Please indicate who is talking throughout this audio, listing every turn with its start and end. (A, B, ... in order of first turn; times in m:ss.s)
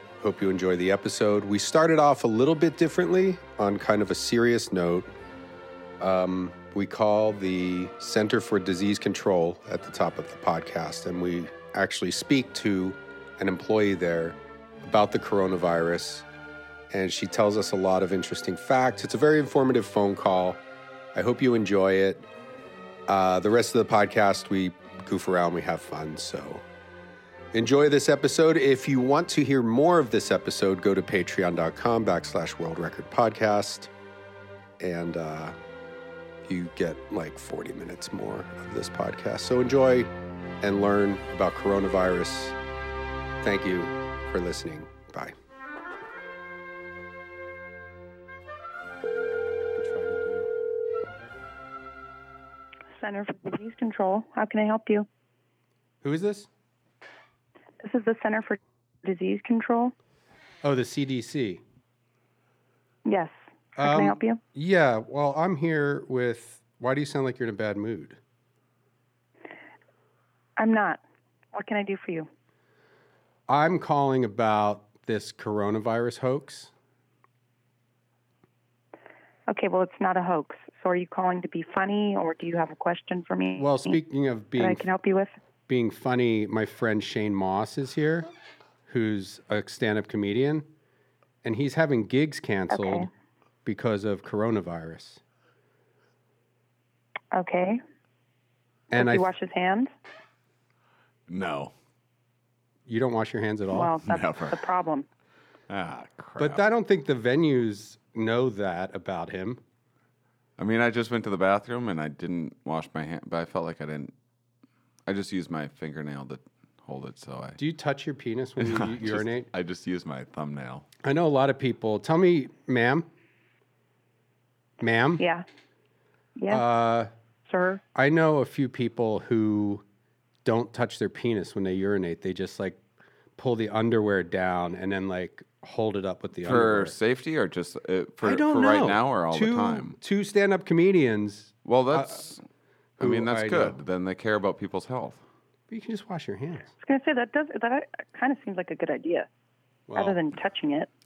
0:00.2-0:05.1 A
0:06.0-0:16.3 A
0:16.9-0:20.6 A
0:21.1-0:22.3 A
0:23.1-0:26.6 A
0:27.5-0:33.9 A
0:34.8-0:35.6 A
0:36.4-0:42.6 A
0:43.4-0:45.4 A
0:49.8-0:50.5 A
0:53.0-0:55.1 B
0:56.0-0:56.5 A
0:57.8-0:59.9 B
1:00.6-1:01.6 A
1:03.1-1:04.4 B
1:03.8-1:08.2 A
1:10.6-1:11.0 B
1:11.5-1:12.3 B
1:13.5-1:16.7 A
1:19.5-1:24.0 B
1:23.6-1:24.9 A
1:24.6-1:25.3 B
1:25.7-1:28.3 A
1:28.9-1:30.7 A
1:31.4-1:33.1 A
1:32.7-1:33.1 B
1:33.6-1:35.2 A
1:37.3-1:37.8 B
1:38.9-1:39.3 A
1:39.0-1:39.9 B
1:41.3-1:41.7 C
1:42.9-1:43.9 A
1:43.7-1:45.1 B
1:44.0-1:44.6 C
1:45.7-1:46.6 C
1:46.4-1:49.6 A
1:50.6-1:54.1 C
1:55.1-1:57.6 C
1:57.6-1:59.5 A
1:58.6-2:00.9 C
2:01.0-2:03.1 A
2:04.8-2:05.2 A
2:05.2-2:05.4 B
2:06.4-2:06.6 B
2:06.5-2:07.1 A
2:07.5-2:07.8 B
2:08.0-2:09.8 A
2:10.4-2:12.8 A
2:13.4-2:17.0 A
2:16.4-2:20.0 C
2:18.2-2:22.2 A
2:21.6-2:22.4 C
2:23.0-2:23.8 A
2:23.0-2:25.2 C
2:25.7-2:26.7 A
2:26.8-2:29.3 B
2:29.9-2:30.2 A
2:30.0-2:30.9 B